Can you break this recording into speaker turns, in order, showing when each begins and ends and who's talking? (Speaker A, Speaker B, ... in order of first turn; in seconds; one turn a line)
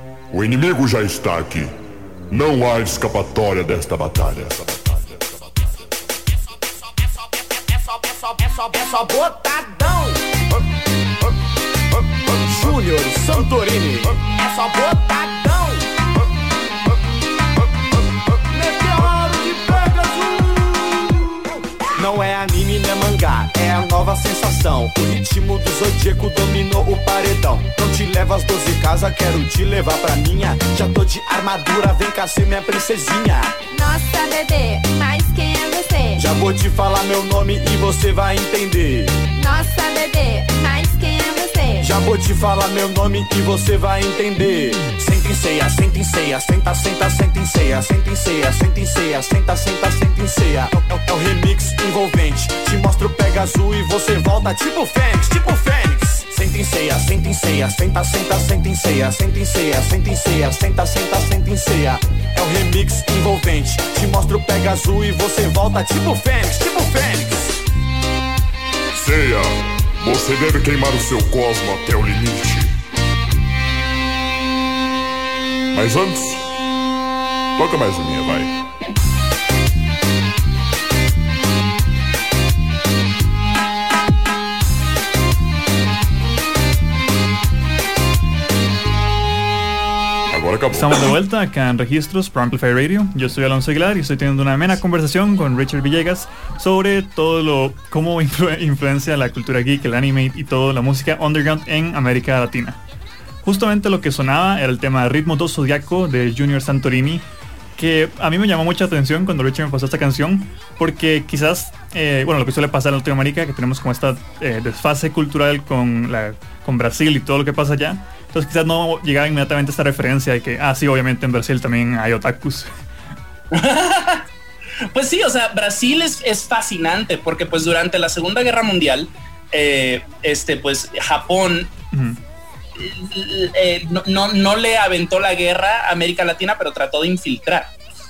Speaker A: 0.3-1.7
Speaker A: 2.3-5.2
Speaker B: 8.9-10.2
Speaker B: 12.5-15.8
Speaker B: 18.5-20.6
Speaker B: 22.0-33.5
Speaker C: 33.7-36.3
Speaker B: 36.2-39.2
Speaker C: 39.4-41.9
Speaker B: 41.8-67.6
Speaker A: 69.0-72.7
Speaker A: 75.7-76.5
Speaker A: 77.6-78.5
Speaker A: 90.3-91.1
Speaker D: 90.7-102.8
Speaker D: 103.4-107.2
Speaker D: 107.8-122.7
Speaker E: 123.5-124.3
Speaker E: 124.9-131.7
Speaker D: 131.9-132.2
Speaker E: 132.8-137.7